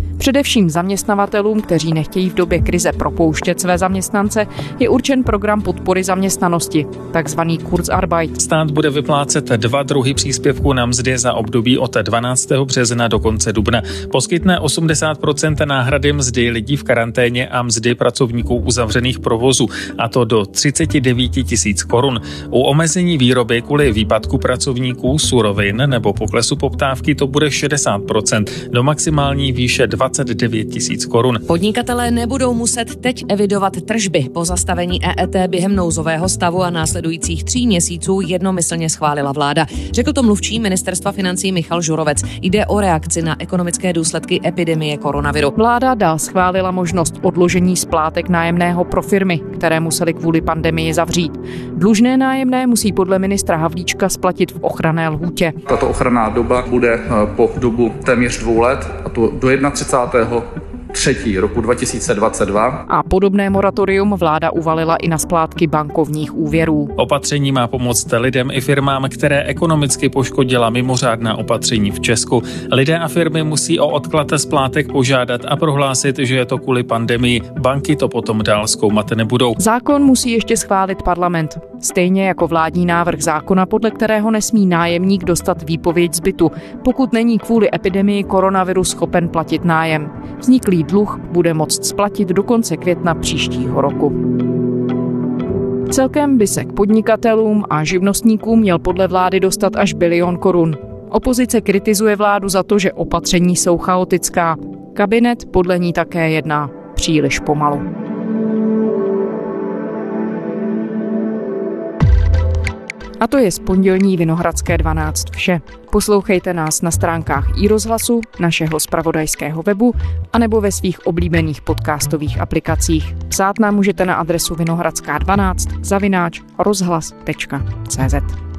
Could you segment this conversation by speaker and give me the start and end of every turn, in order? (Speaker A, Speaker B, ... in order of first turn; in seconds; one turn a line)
Speaker A: 0.2-8.3
Speaker B: 8.4-31.4
Speaker C: 31.5-45.5
Speaker A: 45.5-55.5
Speaker D: 55.6-62.8
Speaker A: 62.9-66.9
Speaker B: 67.0-79.6
Speaker A: 79.6-94.2
Speaker A: 95.9-107.8
Speaker A: 113.2-128.3